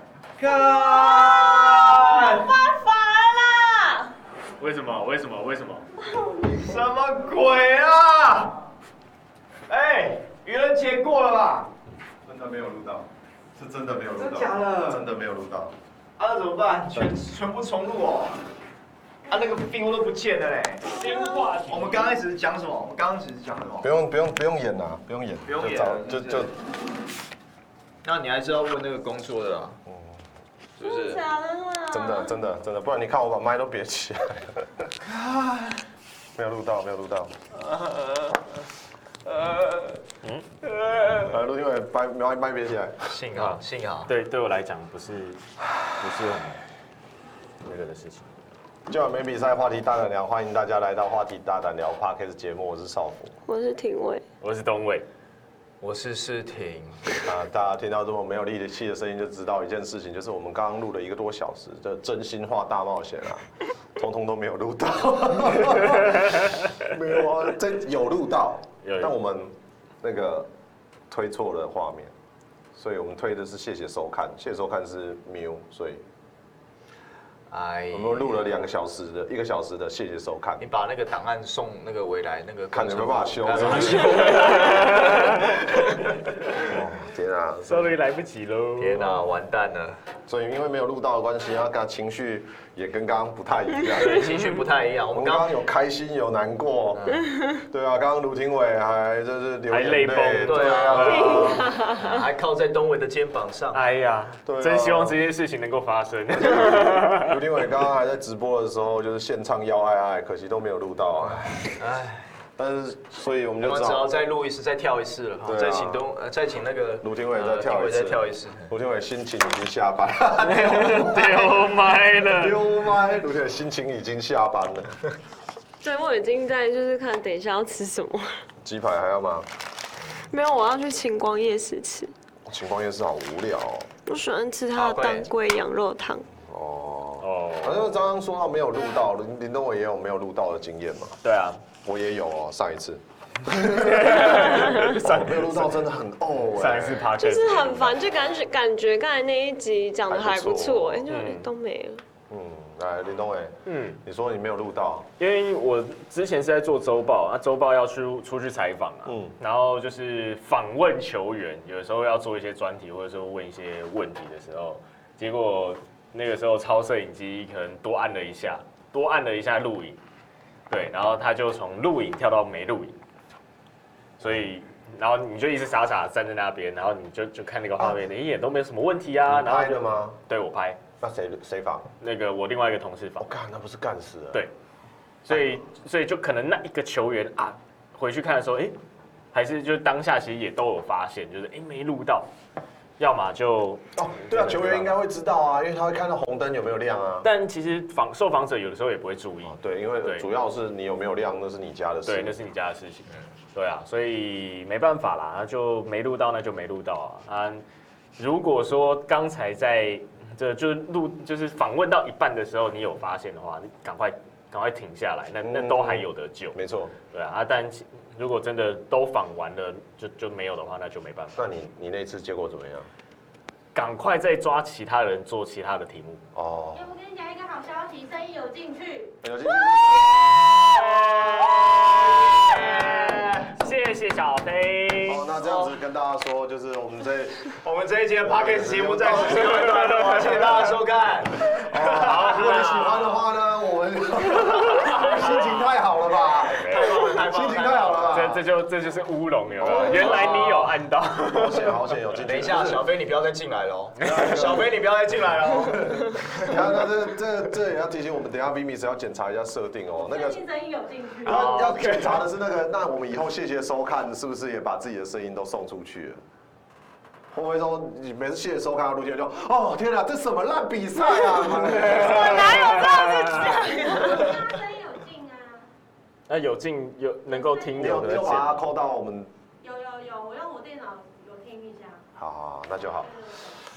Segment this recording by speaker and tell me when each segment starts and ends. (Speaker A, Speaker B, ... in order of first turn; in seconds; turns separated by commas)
Speaker A: 0.4-2.6, Speaker B: 0.5-4.1, Speaker C: 4.6-5.8, Speaker A: 6.3-8.6, Speaker A: 9.7-11.7, Speaker D: 12.2-15.7, Speaker A: 14.1-15.0, Speaker A: 16.2-18.4, Speaker A: 19.2-20.9, Speaker C: 20.9-22.1, Speaker A: 21.6-23.9, Speaker D: 23.8-26.5, Speaker A: 25.4-26.5, Speaker A: 28.0-29.8, Speaker D: 29.9-30.2, Speaker A: 30.8-31.2, Speaker B: 30.8-32.4, Speaker D: 31.9-34.9, Speaker A: 35.1-35.8, Speaker D: 36.3-37.3, Speaker A: 37.8-38.4, Speaker A: 39.2-40.0, Speaker C: 40.2-40.5, Speaker A: 40.7-41.1, Speaker D: 41.1-43.1, Speaker A: 43.0-44.1, Speaker C: 43.3-45.4, Speaker C: 46.0-46.6, Speaker C: 47.6-48.2, Speaker D: 48.9-53.3, Speaker B: 53.5-54.2, Speaker C: 54.4-55.0, Speaker A: 55.8-57.2, Speaker D: 57.2-70.5, Speaker C: 66.0-66.4, Speaker C: 68.8-69.1, Speaker D: 71.1-72.1, Speaker D: 72.7-76.0, Speaker A: 77.5-78.5, Speaker D: 77.9-80.7, Speaker A: 80.6-86.0, Speaker D: 82.7-84.5, Speaker C: 83.9-85.5, Speaker D: 86.7-88.0, Speaker C: 87.7-89.2, Speaker A: 88.8-90.0, Speaker D: 90.3-94.3, Speaker A: 94.0-95.5, Speaker C: 94.1-94.6, Speaker D: 95.1-101.7, Speaker A: 96.9-97.3, Speaker C: 99.7-101.6, Speaker A: 100.3-103.8, Speaker B: 101.0-102.1, Speaker C: 103.7-107.4, Speaker D: 104.4-105.2, Speaker D: 106.3-111.8, Speaker A: 111.8-112.3, Speaker D: 112.6-114.1, Speaker A: 113.6-118.7, Speaker D: 115.4-116.1, Speaker D: 117.0-121.6, Speaker C: 120.4-122.6, Speaker D: 122.2-125.0, Speaker B: 125.8-128.3, Speaker D: 128.6-129.5, Speaker B: 130.2-132.1, Speaker D: 132.4-133.9, Speaker B: 134.1-136.3, Speaker A: 134.7-135.3, Speaker D: 136.3-141.2, Speaker C: 137.2-137.9, Speaker C: 141.2-141.6, Speaker D: 141.8-147.1, Speaker C: 143.5-145.8, Speaker C: 146.5-148.0, Speaker B: 147.2-152.0, Speaker D: 150.1-151.1, Speaker C: 151.1-151.5, Speaker D: 152.3-155.1, Speaker C: 153.7-154.0, Speaker C: 155.2-170.0, Speaker D: 159.0-159.3, Speaker C: 170.7-172.9, Speaker C: 174.2-180.8, Speaker D: 174.2-174.5, Speaker D: 177.8-178.0, Speaker D: 179.3-180.2, Speaker D: 181.0-181.9, Speaker C: 182.0-183.2, Speaker D: 183.2-184.4, Speaker C: 185.2-188.7, Speaker D: 185.3-185.6, Speaker C: 189.3-192.3, Speaker C: 193.0-194.9, Speaker D: 193.9-197.3, Speaker C: 197.2-200.3, Speaker D: 199.4-202.4, Speaker C: 202.0-207.6, Speaker C: 208.2-221.4, Speaker D: 215.4-216.9, Speaker D: 221.3-222.9, Speaker C: 223.7-226.2, Speaker D: 226.3-226.9, Speaker E: 226.8-229.1, Speaker D: 229.2-230.2, Speaker A: 229.9-233.5, Speaker C: 230.5-235.3, Speaker D: 235.1-237.5, Speaker A: 235.4-235.8, Speaker A: 237.6-243.2, Speaker D: 238.2-239.6, Speaker C: 239.1-240.7, Speaker D: 241.5-248.5, Speaker A: 244.8-245.8, Speaker C: 246.6-246.9, Speaker A: 246.6-248.3, Speaker C: 248.1-251.8, Speaker D: 249.6-250.5, Speaker A: 249.6-250.8, Speaker D: 251.3-252.8, Speaker A: 252.2-256.6, Speaker D: 254.0-254.7, Speaker D: 255.6-260.4, Speaker E: 260.1-261.4, Speaker C: 261.2-262.2, Speaker D: 261.2-266.2, Speaker A: 261.3-261.7, Speaker D: 267.3-272.8, Speaker C: 271.6-273.6, Speaker B: 272.0-274.0, Speaker E: 272.5-275.7, Speaker C: 276.3-278.7, Speaker E: 277.3-277.9, Speaker D: 277.7-279.3, Speaker E: 279.6-282.0, Speaker D: 282.1-283.2, Speaker E: 283.2-283.5